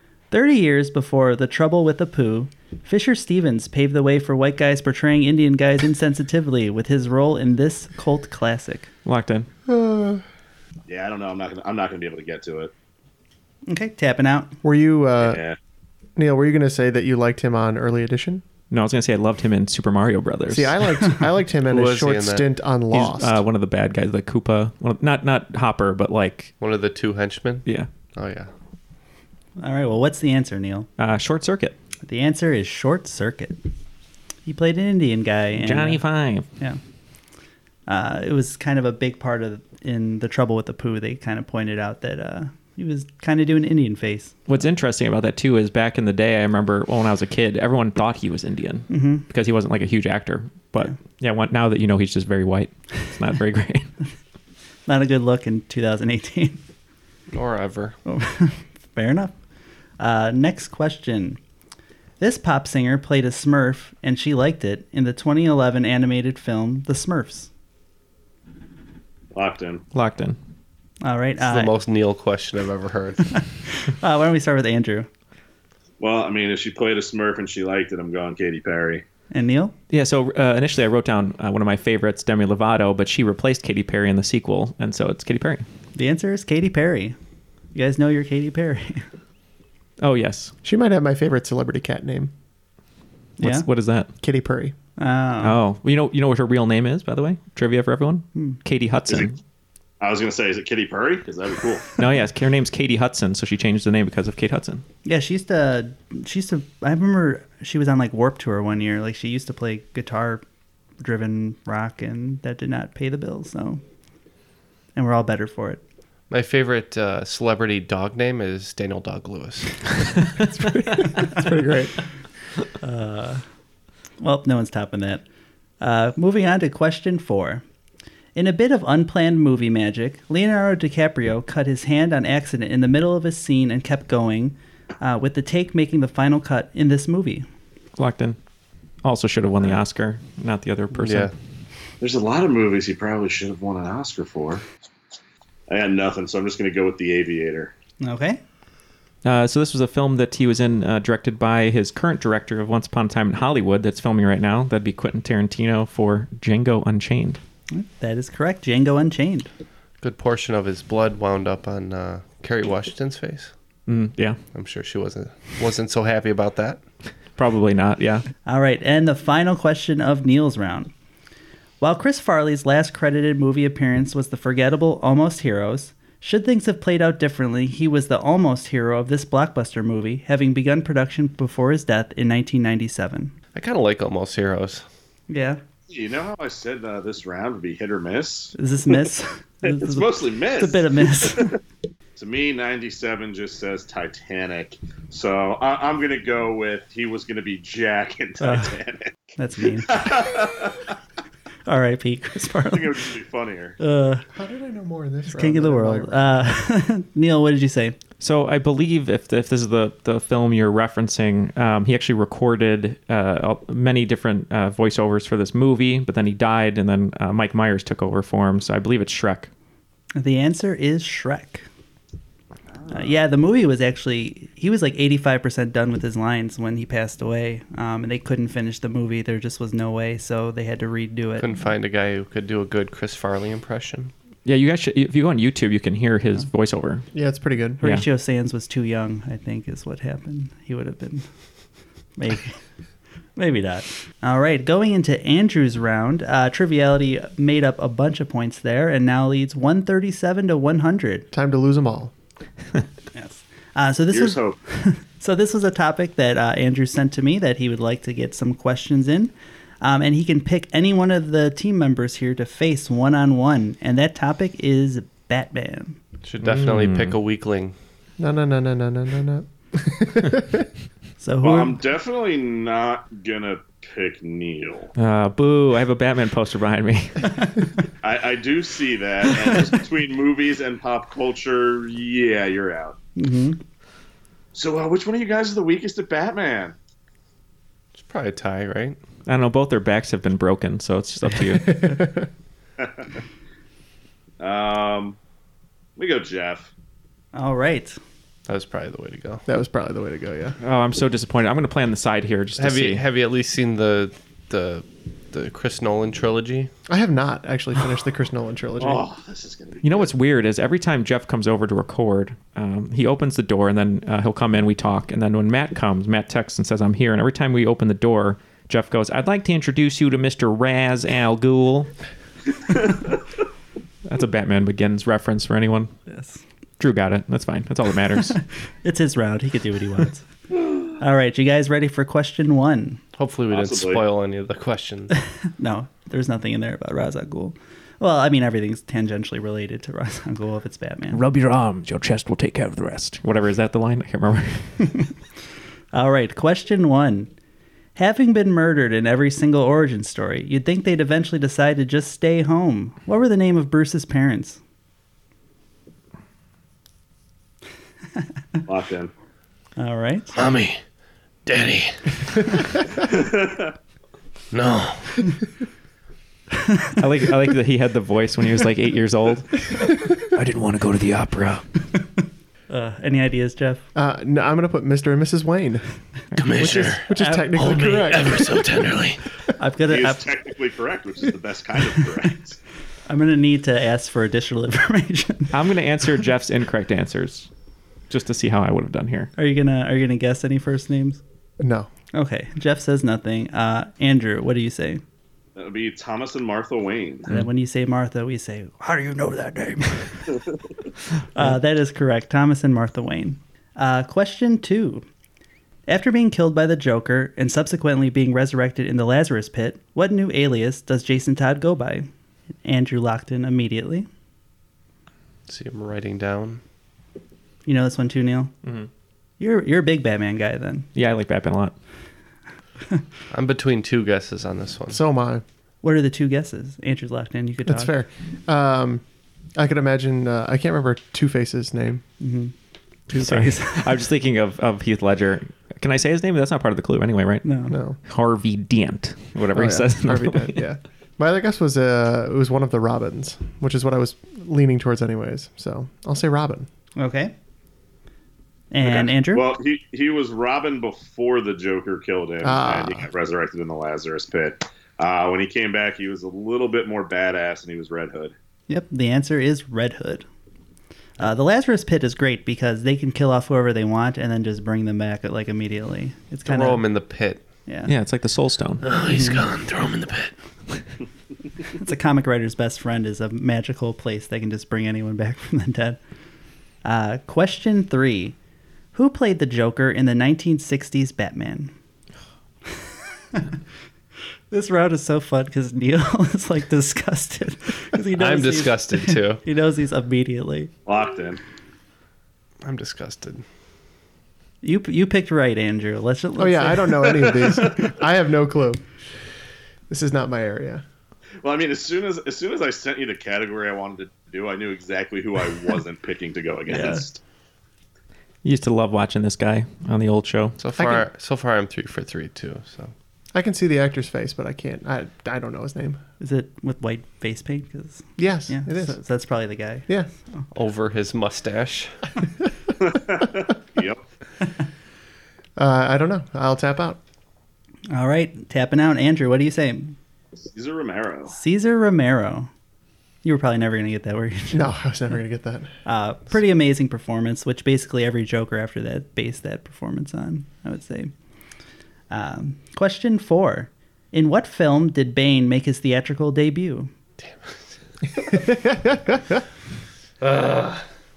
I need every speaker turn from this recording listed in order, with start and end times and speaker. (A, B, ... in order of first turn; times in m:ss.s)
0:00.3-0:08.9 A
0:09.0-0:09.5 B
0:09.7-0:10.2 C
0:10.9-0:12.7 D
0:13.7-0:14.6 A
0:14.6-0:15.4 C
0:15.2-0:15.6 D
0:16.2-0:18.4 C
0:18.7-0:20.7 B
0:20.5-0:23.4 C
0:21.7-0:22.5 E
0:22.9-0:26.5 B
0:26.6-0:28.5 E
0:29.6-0:30.9 A
0:31.0-0:31.8 B
0:32.0-0:33.6 A
0:34.5-0:36.0 A
0:35.5-0:36.5 B
0:37.9-0:44.4 A
0:44.5-0:53.9 B
0:48.9-0:49.3 A
0:54.9-0:56.6 A
0:57.3-0:58.0 E
0:58.1-0:59.3 A
1:00.0-1:01.4 A
1:02.2-1:07.5 A
1:09.3-1:09.8 D
1:09.9-1:10.4 B
1:11.0-1:11.7 A
1:11.4-1:13.3 E
1:13.3-1:15.1 A
1:16.0-1:19.0 D
1:19.3-1:19.7 A
1:19.9-1:25.6 B
1:26.0-1:27.2 A
1:27.7-1:29.1 A
1:30.0-1:30.5 B
1:30.6-1:32.3 C
1:33.4-1:33.7 A
1:33.4-1:34.1 B
1:34.2-1:34.7 C
1:35.0-1:35.6 A
1:35.4-1:39.4 B
1:40.0-1:41.9 D
1:42.0-1:44.8 B
1:45.0-1:50.4 A
1:51.0-1:53.8 A
1:55.0-1:55.8 A
1:56.3-1:59.9 E
2:00.4-2:02.0 C
2:02.8-2:03.4 A
2:04.2-2:05.2 A
2:05.8-2:07.6 A
2:08.4-2:17.5 A
2:18.0-2:18.4 B
2:19.0-2:21.3 B
2:21.0-2:21.3 E
2:22.0-2:24.6 D
2:25.7-2:27.7 D
2:28.0-2:28.4 A
2:29.2-2:37.4 B
2:37.7-2:39.5 A
2:40.0-2:43.5 E
2:43.9-2:44.4 B
2:44.5-2:46.8 E
2:47.4-2:48.2 B
2:48.5-2:50.9 A
2:51.8-3:03.3 A
3:03.5-3:04.8 E
3:05.3-3:05.6 A
3:05.9-3:08.5 D
3:08.6-3:11.6 A
3:09.6-3:11.6 D
3:12.2-3:19.1 D
3:18.4-3:18.7 A
3:19.4-3:20.2 A
3:19.9-3:20.8 D
3:21.7-3:23.0 A
3:22.7-3:23.8 D
3:23.8-3:24.3 A
3:24.3-3:26.4 C
3:25.3-3:28.0 A
3:28.2-3:39.5 B
3:40.2-3:41.7 A
3:42.8-3:43.1 D
3:42.9-3:51.5 A
3:51.4-3:54.1 E
3:54.4-3:57.1 B
3:57.1-3:57.8 C
3:57.8-4:01.3 A
4:02.2-4:02.6 A
4:03.4-4:11.3 A
4:11.3-4:12.1 C
4:13.2-4:26.0 A
4:14.1-4:14.6 D
4:26.2-4:27.8 E
4:26.4-4:27.2 B
4:28.2-4:30.7 C
4:31.2-4:31.8 A
4:31.4-4:34.9 D
4:35.0-4:37.5 B
4:38.0-4:43.0 D
4:43.2-4:43.6 A
4:44.5-4:46.8 D
4:48.0-4:49.0 E
4:49.3-4:52.0 B
4:51.7-4:52.3 C
4:52.8-4:53.2 D
4:54.4-4:55.2 D
4:56.0-4:56.7 D
4:57.3-4:58.0 A
4:58.5-4:59.4 E
4:59.5-5:00.6 C
5:00.6-5:03.0 B
5:02.6-5:06.7 E
5:06.9-5:09.0 C
5:08.8-5:10.1 D
5:09.8-5:21.9 B
5:24.1-5:25.9 B
5:26.1-5:26.4 A
5:26.8-5:28.4 B
5:28.2-5:30.2 A
5:30.9-5:33.0 A
5:33.2-5:35.1 E
5:33.5-5:34.0 D
5:35.6-5:41.2 A
5:41.1-5:45.0 B
5:45.9-5:47.3 A
5:48.0-5:54.6 A
5:58.7-5:59.1 D
5:59.8-6:00.4 A
6:00.3-6:00.8 E
6:01.5-6:02.6 E
6:03.1-6:03.7 D
6:04.5-6:05.3 E
6:07.0-6:11.6 B
6:12.7-6:13.8 A
6:14.0-6:15.8 C
6:16.3-6:16.8 B
6:16.4-6:19.2 E
6:16.6-6:18.9 C
6:17.2-6:18.0 A
6:19.6-6:20.3 A
6:19.9-6:22.6 D
6:23.1-6:25.6 A
6:25.5-6:27.5 B
6:28.1-6:29.3 B
6:29.4-6:31.2 A
6:31.6-6:31.9 C
6:32.1-6:35.0 A
6:35.6-6:37.3 D
6:37.3-6:40.3 A
6:41.4-6:45.0 A
6:45.9-6:52.1 A
6:52.6-6:54.1 A
6:55.5-6:56.6 E
6:57.7-6:58.5 A
6:59.4-7:00.9 A
7:01.0-7:01.7 B
7:03.3-7:05.0 E
7:04.9-7:05.4 C
7:05.8-7:08.0 A
7:07.7-7:09.0 C
7:09.6-7:12.0 C
7:12.2-7:12.5 A
7:13.1-7:13.9 A
7:13.2-7:20.6 B
7:17.4-7:17.8 A
7:17.7-7:18.0 C
7:19.5-7:26.7 C
7:27.0-7:27.3 A
7:28.7-7:29.5 A
7:28.8-7:38.3 D
7:32.4-7:33.1 C
7:38.7-7:40.3 A
7:41.2-7:46.8 A
7:46.4-7:47.4 E
7:47.7-7:47.9 A
7:47.8-7:48.9 B
7:48.8-7:50.3 E
7:49.1-7:49.4 A
7:51.8-7:56.0 A
7:56.8-7:58.4 A
7:58.9-8:01.7 A
8:04.5-8:10.7 A
8:08.2-8:09.4 E
8:10.9-8:11.4 D
8:12.6-8:13.4 E
8:14.6-8:17.8 A
8:16.4-8:18.8 C
8:19.9-8:20.8 C
8:21.4-8:27.2 D
8:26.7-8:27.1 A
8:28.4-8:30.6 B
8:30.6-8:32.9 E
8:30.8-8:31.1 C
8:33.3-8:36.0 C
8:36.2-8:40.4 A
8:38.2-8:39.0 C
8:40.5-8:42.1 E
8:42.8-8:44.0 D
8:45.6-8:47.0 C
8:47.9-8:50.0 A
8:50.5-8:51.4 D
8:51.3-8:52.5 A
8:53.2-8:54.7 A
8:54.5-8:55.7 C
8:55.9-9:01.1 A
9:02.1-9:06.9 A
9:07.2-9:07.6 E
9:08.2-9:09.4 C
9:10.2-9:10.8 E